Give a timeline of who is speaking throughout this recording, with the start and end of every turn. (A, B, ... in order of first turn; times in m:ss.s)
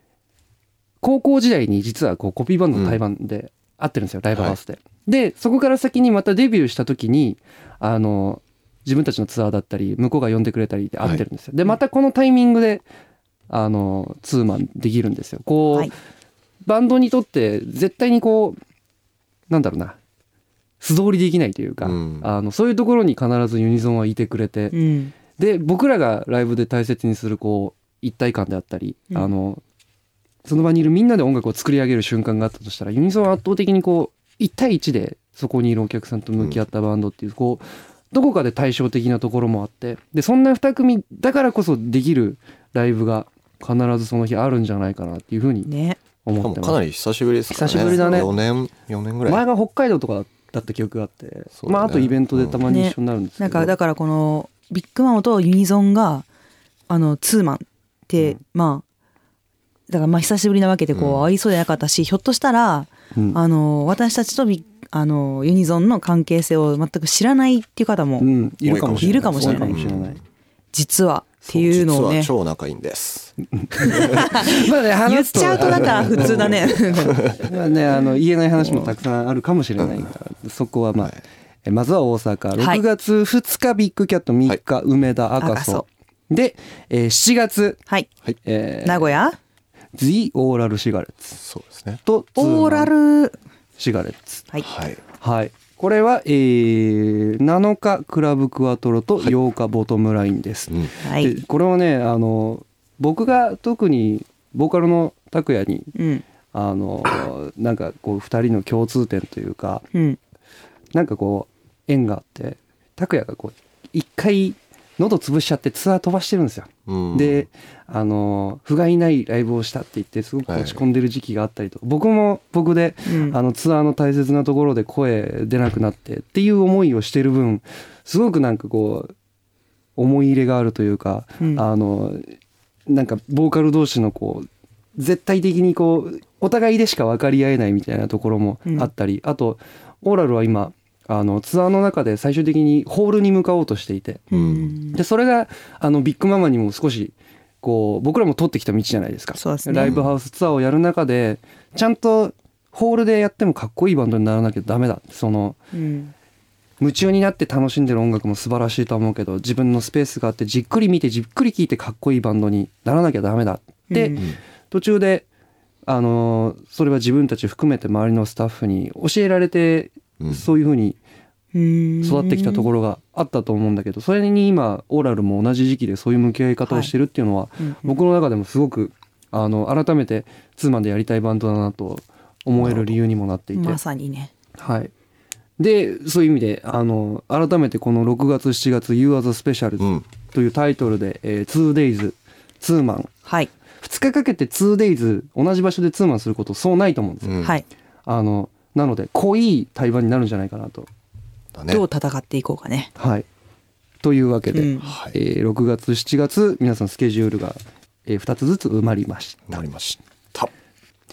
0:01.0-0:12.8 A
0:02.7-0:03.0 B
0:13.5-0:15.9 A
0:16.6-0:18.6 A
0:19.5-0:20.0 A
0:20.8-0:24.8 A
0:21.8-0:22.3 B
0:24.7-0:25.1 C
0:25.3-0:29.6 A
0:30.4-0:45.7 A
0:45.6-0:46.0 C
0:46.2-0:46.8 A
0:46.4-0:49.4 B
0:47.5-0:48.3 A
0:47.7-0:48.3 C
0:49.2-0:53.7 A
0:51.6-0:52.6 B
0:52.7-0:56.2 C
0:56.9-0:58.8 C
0:59.9-1:08.3 C
1:00.9-1:01.3 B
1:03.1-1:03.4 A
1:08.2-1:10.2 A
1:08.6-1:10.2 B
1:08.9-1:09.8 C
1:10.7-1:12.3 C
1:11.5-1:13.3 B
1:13.6-1:27.8 A
1:13.9-1:14.2 B
1:13.9-1:14.5 C
1:15.0-1:17.3 C
1:15.6-1:17.5 B
1:18.6-1:18.9 C
1:19.8-1:20.0 B
1:22.6-1:22.8 C
1:25.4-1:25.8 C
1:28.4-1:29.2 A
1:28.8-1:29.4 C
1:29.9-1:31.4 A
1:31.4-1:32.0 B
1:32.0-1:32.9 A
1:32.4-1:33.4 C
1:33.8-1:34.5 A
1:34.6-1:35.0 B
1:35.2-1:45.9 A
1:41.0-1:41.4 C
1:45.9-1:46.2 C
1:46.5-1:49.8 A
1:49.9-1:50.2 C
1:50.9-2:09.1 A
1:56.9-1:57.5 B
2:00.5-2:00.8 B
2:03.0-2:03.4 C
2:10.0-2:12.2 A
2:12.9-2:24.3 A
2:24.3-2:25.0 C
2:24.3-2:24.8 B
2:24.9-2:35.6 A
2:29.4-2:30.0 C
2:29.8-2:30.1 B
2:35.7-2:36.1 C
2:36.8-2:45.3 A
2:43.9-2:44.2 C
2:45.8-2:51.0 A
2:51.5-2:52.7 C
2:52.0-3:03.8 A
2:56.7-2:56.9 C
2:57.6-2:58.0 C
3:02.6-3:03.0 B
3:03.5-3:04.3 C
3:04.6-3:04.9 A
3:05.6-3:13.1 A
3:09.8-3:10.1 B
3:13.2-3:13.5 C
3:13.8-3:17.4 A
3:17.2-3:17.6 B
3:18.0-3:20.9 A
3:21.5-3:21.8 B
3:21.7-3:22.9 C
3:23.0-3:23.2 A
3:24.0-3:29.6 A
3:24.5-3:24.9 C
3:24.8-3:25.1 B
3:29.5-3:30.5 B